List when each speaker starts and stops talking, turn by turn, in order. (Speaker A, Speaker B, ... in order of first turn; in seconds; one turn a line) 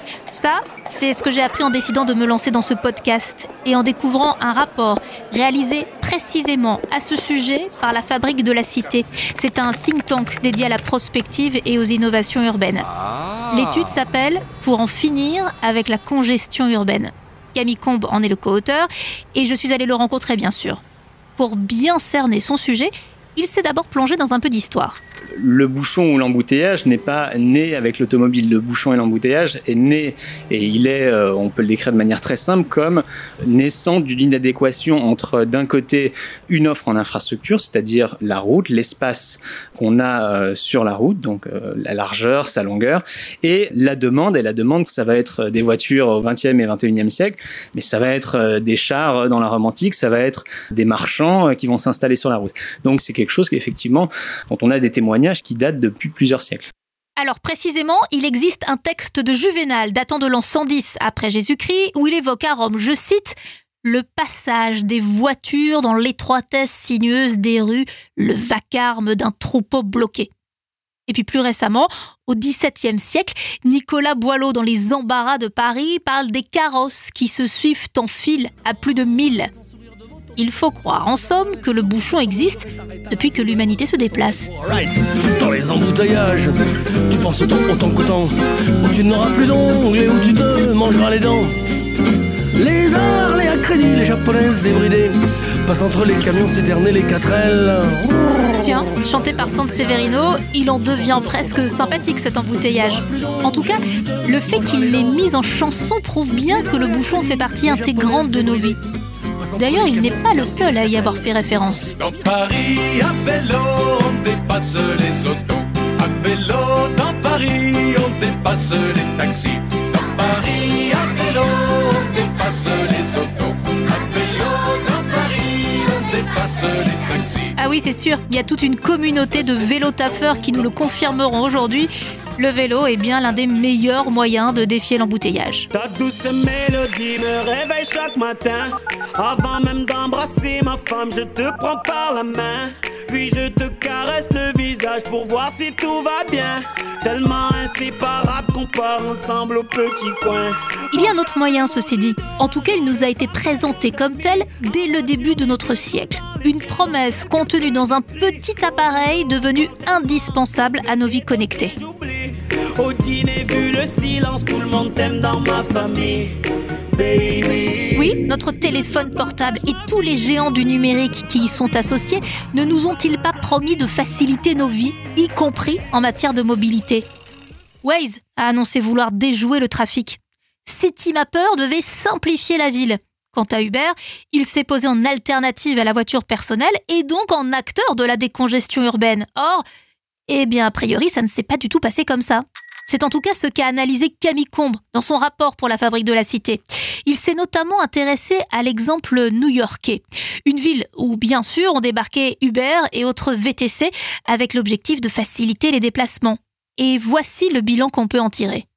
Speaker A: 0.3-12.9
Speaker A: 13.5-20.8
Speaker A: 21.4-25.0
Speaker B: 25.3-56.7
Speaker A: 57.2-70.3
Speaker A: 71.1-79.5
Speaker A: 80.4-84.5
Speaker C: 84.6-86.5
Speaker C: 87.1-91.5
Speaker C: 92.6-105.4
Speaker A: 98.6-108.8
Speaker C: 106.4-108.8
Speaker C: 109.4-111.2
Speaker A: 109.6-111.9
Speaker D: 112.0-127.5
Speaker A: 127.6-135.7
Speaker E: 135.7-151.2
Speaker A: 150.9-161.8
Speaker E: 152.5-153.1
Speaker E: 153.7-166.3
Speaker E: 166.9-168.3
Speaker A: 167.9-177.1
Speaker A: 177.8-189.6
Speaker A: 190.3-208.7